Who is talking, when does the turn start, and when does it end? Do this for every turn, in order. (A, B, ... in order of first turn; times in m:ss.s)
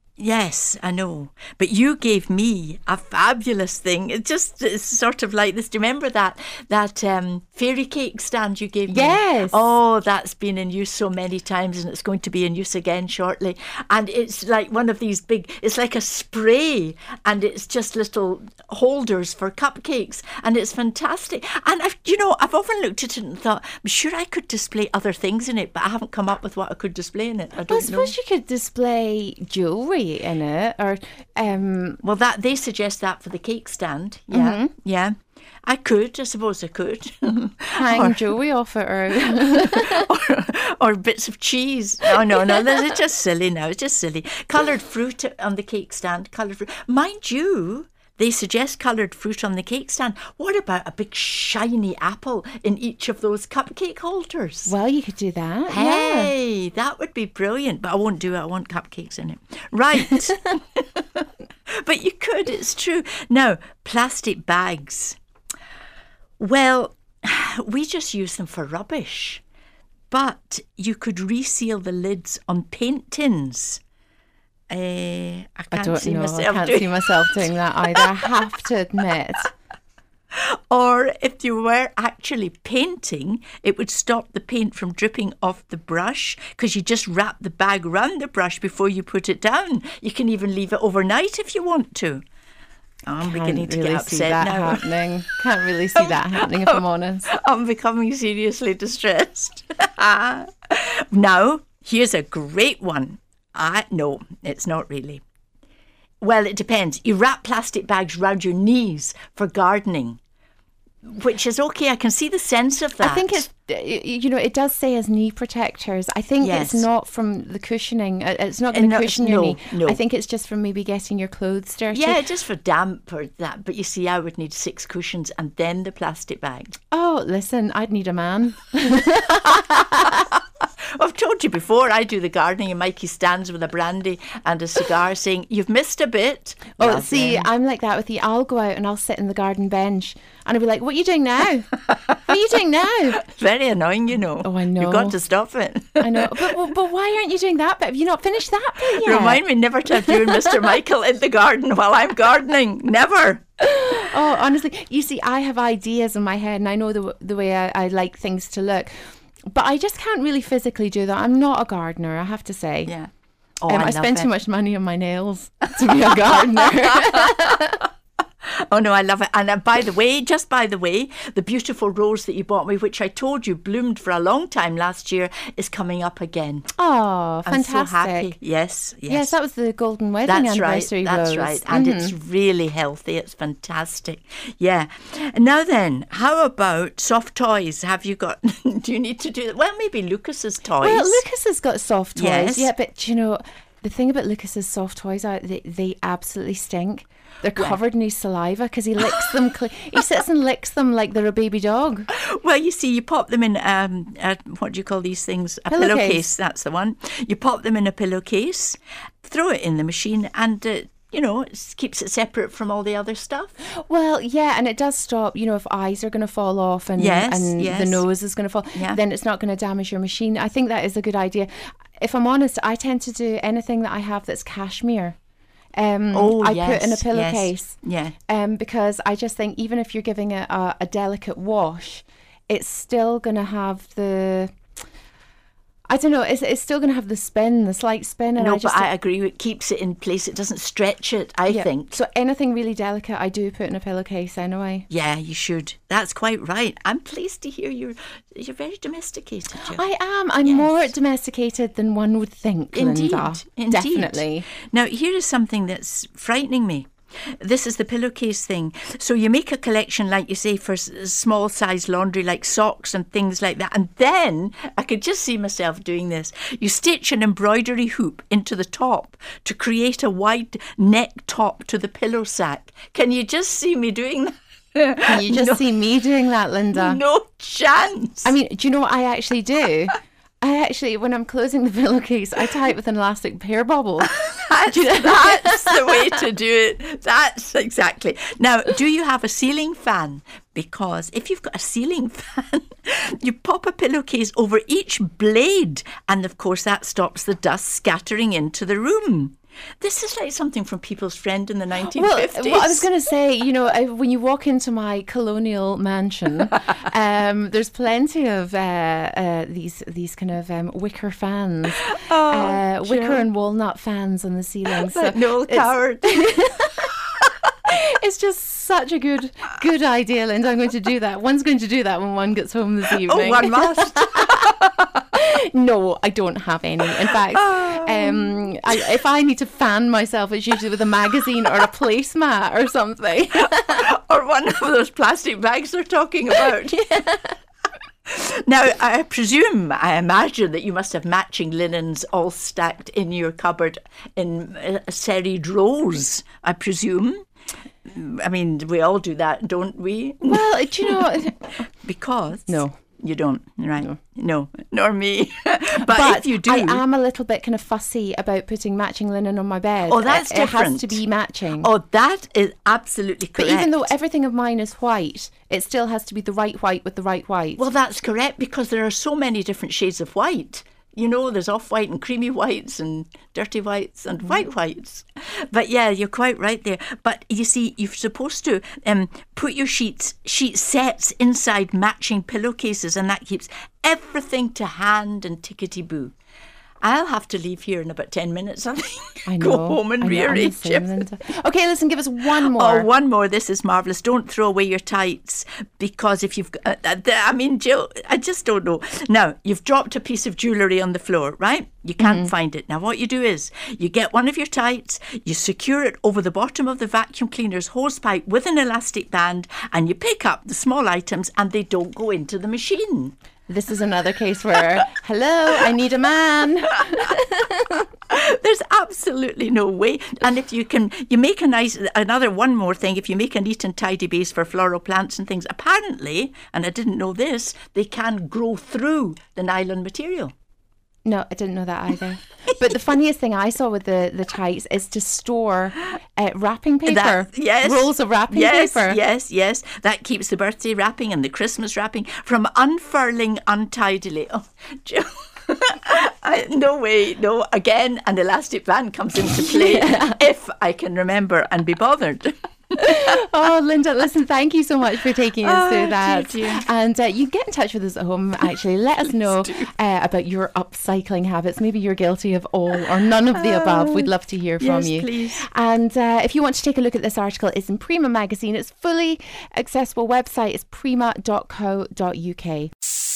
0:00.2-0:28.1 A
0:08.9-0:09.7 B
0:27.7-0:32.0 B
0:32.0-0:38.4 A
0:34.3-0:34.7 B
0:37.8-0:40.1 B
0:39.1-0:54.7 A
0:42.3-0:42.8 B
0:54.7-0:56.3 B
0:55.7-1:01.3 A
1:01.8-1:05.2 A
1:06.4-1:09.4 A
1:10.1-1:13.8 A
1:14.7-1:18.0 A
1:15.7-1:19.5 B
1:20.3-1:32.2 A
1:33.1-1:35.3 A
1:33.2-1:37.3 B
1:36.0-1:45.2 A
1:46.2-1:50.2 A
1:51.0-1:53.5 A
1:53.0-2:02.2 B
1:56.4-1:56.9 A
1:58.7-2:00.0 A
2:01.9-2:06.8 A
2:06.9-2:10.3 B
2:11.0-2:17.5 A
2:16.8-2:23.2 B
2:23.1-2:26.3 A
2:24.4-2:25.2 B
2:26.0-2:30.6 B
2:28.9-2:33.4 A
2:33.6-2:38.9 B
2:39.5-2:42.9 B
2:43.6-2:44.3 A
2:43.7-2:47.8 B
2:46.3-2:46.6 A
2:48.4-2:56.7 A
2:56.8-2:58.4 B
2:57.5-2:59.4 A
2:59.1-3:02.2 B
3:00.3-3:11.3 A
3:10.8-3:22.1 B
3:12.2-3:12.7 A
3:22.1-3:33.5 A
3:25.7-3:26.3 B
3:33.8-3:45.2 B
3:37.0-3:38.0 A
3:38.7-3:39.0 A
3:45.8-3:54.5 B
3:46.1-3:48.2 A
3:55.9-3:58.9 B
3:58.4-4:02.0 A
4:01.5-4:04.9 B
4:04.9-4:09.8 A
4:09.6-4:14.5 B
4:10.4-4:10.9 A
4:12.7-4:16.9 A
4:17.4-4:35.6 A
4:35.1-4:37.0 B
4:36.7-4:38.3 A
4:38.2-4:46.2 B
4:44.0-5:02.9 A
5:01.9-5:16.9 B
5:11.7-5:13.3 A
5:14.7-5:16.7 A
5:17.7-5:24.4 B
5:22.9-5:25.0 A
5:25.1-5:33.9 B
5:27.1-5:28.5 A
5:33.3-5:37.2 A
5:36.5-5:37.1 B
5:38.1-5:47.2 A
5:47.9-5:56.8 A
5:50.2-5:51.7 B
5:52.5-5:52.8 B
5:55.8-6:01.7 B
5:59.8-6:01.0 A
6:01.6-6:03.9 A
6:03.4-6:07.6 B
6:07.6-6:26.1 A
6:26.8-6:31.1 A
6:29.2-6:32.9 B
6:32.2-6:53.2 A
6:42.0-6:42.3 B
6:53.5-6:57.8 B
6:58.1-7:10.3 A
7:11.0-7:19.0 B
7:16.9-7:33.2 A
7:29.2-7:30.2 B
7:32.8-7:52.7 B
7:35.4-7:36.7 A
7:39.3-7:39.7 A
7:43.1-7:45.4 A